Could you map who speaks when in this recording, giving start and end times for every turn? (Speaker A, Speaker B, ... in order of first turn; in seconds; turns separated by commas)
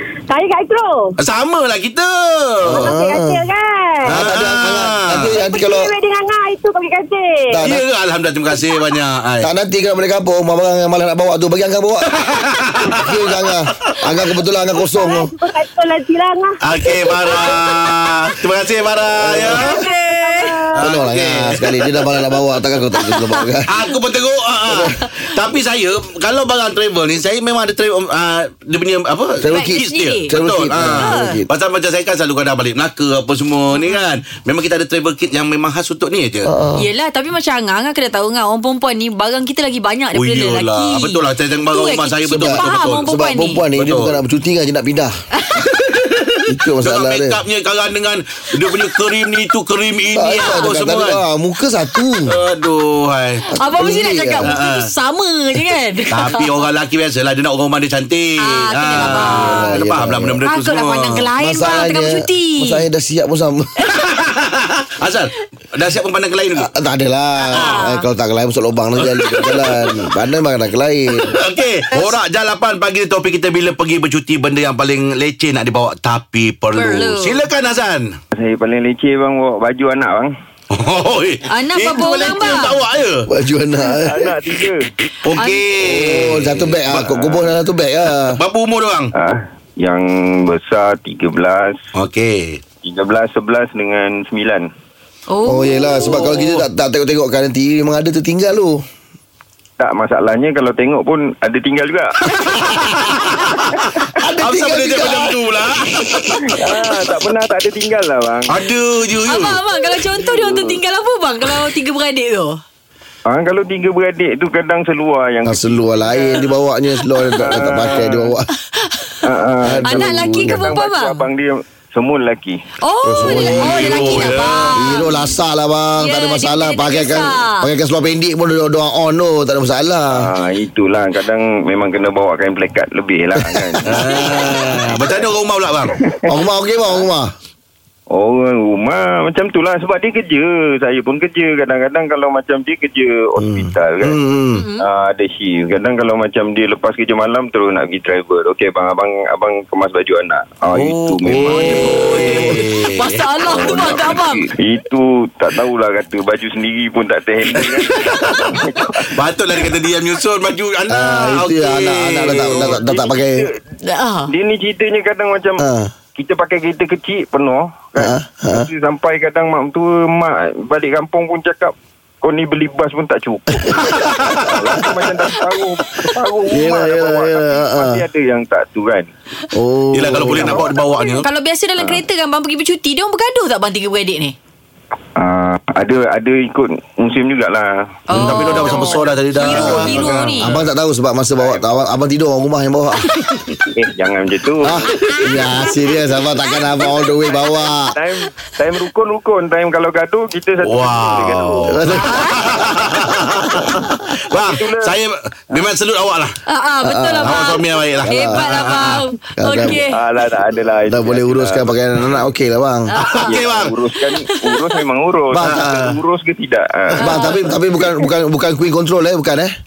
Speaker A: 0.3-1.1, Speaker B: 1.2-2.9, Speaker C: 2.7-3.4, Speaker A: 2.7-4.2, Speaker C: 4.0-5.9, Speaker B: 4.1-5.3, Speaker A: 5.3-7.7, Speaker C: 7.5-7.8, Speaker B: 7.6-9.5, Speaker C: 9.4-12.2, Speaker B: 12.1-13.2, Speaker C: 12.8-15.3, Speaker A: 14.8-17.8, Speaker B: 16.6-19.7, Speaker D: 17.3-17.6, Speaker C: 19.2-19.8, Speaker D: 19.5-20.6, Speaker A: 19.6-20.8, Speaker B: 20.8-22.1, Speaker C: 20.8-23.7, Speaker D: 23.0-23.4, Speaker B: 23.7-36.5, Speaker C: 24.7-24.9, Speaker C: 29.4-31.5, Speaker D: 29.5-30.3, Speaker D: 30.9-31.4, Speaker C: 36.4-36.9, Speaker D: 36.8-43.6, Speaker B: 40.1-43.1, Speaker C: 42.2-45.1, Speaker B: 43.8-44.2, Speaker D: 45.4-45.6, Speaker B: 45.6-51.2, Speaker C: 46.5-47.4, Speaker C: 50.1-52.3, Speaker B: 52.2-53.5, Speaker D: 53.5-56.5, Speaker C: 53.5-54.5, Speaker B: 54.4-54.9, Speaker B: 56.1-61.3, Speaker D: 58.4-59.8, Speaker C: 58.9-60.4, Speaker D: 60.5-62.8, Speaker C: 61.4-63.8, Speaker B: 63.9-66.7, Speaker C: 66.5-71.3, Speaker D: 67.5-68.0, Speaker B: 69.0-70.0, Speaker B: 71.2-78.1, Speaker D: 76.7-77.4, Speaker E: 78.4-80.3, Speaker B: 80.7-83.3, Speaker D: 81.5-82.7, Speaker C: 83.3-84.3, Speaker E: 84.0-84.9, Speaker B: 85.2-87.4, Speaker D: 85.4-85.6, Speaker C: 85.8-88.4, Speaker B: 88.3-89.1, Speaker E: 89.1-91.8, Speaker B: 92.0-92.6, Speaker E: 92.8-94.7, Speaker D: 95.3-96.3, Speaker C: 95.4-98.8, Speaker B: 96.1-96.6, Speaker E: 99.8-102.2, Speaker B: 102.4-103.8, Speaker C: 104.2-105.3, Speaker B: 104.4-106.6, Speaker E: 106.5-108.6, Speaker B: 108.5-109.6, Speaker D: 109.2-112.6, Speaker E: 110.2-110.8, Speaker E: 113.3-116.5, Speaker C: 115.4-118.5, Speaker E: 117.3-118.3, Speaker D: 118.8-119.1, Speaker E: 119.2-122.6, Speaker C: 119.6-120.7, Speaker D: 119.8-121.2, Speaker D: 122.8-125.3, Speaker C: 123.1-124.1, Speaker B: 123.3-124.8, Speaker C: 124.8-130.3, Speaker D: 126.0-127.7, Speaker E: 130.1-135.1, Speaker C: 133.4-134.0, Speaker B: 133.8-135.9, Speaker E: 135.9-136.4, Speaker C: 136.3-137.3, Speaker E: 138.1-144.2, Speaker C: 143.4-144.7, Speaker D: 144.6-144.8, Speaker E: 144.8-152.6, Speaker B: 150.7-153.2, Speaker D: 151.5-154.4, Speaker E: 153.4-159.1, Speaker B: 158.0-158.5, Speaker B: 159.1-162.8, Speaker C: 160.9-163.4, Speaker E: 162.3-163.6, Speaker D: 163.8-164.3, Speaker E: 164.3-165.6, Speaker C: 165.6-165.9, Speaker E: 166.1-179.1, Speaker C: 168.0-168.7, Speaker C: 176.5-178.0, Speaker C: 179.5-180.6, Speaker B: 179.9-181.3, Speaker D: 180.5-184.3, Speaker E: 185.2-187.9, Speaker D: 188.1-190.5, Speaker B: 188.1-190.6, Speaker E: 188.4-188.9, Speaker C: 189.5-193.1, Speaker E: 191.4-191.8, Speaker E: 193.7-194.8, Speaker C: 194.6-197.9, Speaker D: 195.1-195.6, Speaker D: 196.5-197.2, Speaker E: 196.7-201.8, Speaker B: 200.6-206.4, Speaker C: 201.6-202.8, Speaker D: 202.0-202.4, Speaker C: 203.6-203.9, Speaker E: 204.3-205.0, Speaker D: 206.5-210.0, Speaker C: 206.8-207.4, Speaker B: 207.2-209.0, Speaker C: 208.1-208.5, Speaker C: 209.4-209.8, Speaker E: 209.9-211.8, Speaker C: 210.9-212.9, Speaker D: 212.9-213.3, Speaker B: 213.1-213.7, Speaker E: 213.1-217.4, Speaker D: 214.2-214.6, Speaker C: 215.3-215.7, Speaker B: 215.4-216.0, Speaker C: 216.9-219.5, Speaker D: 217.0-217.4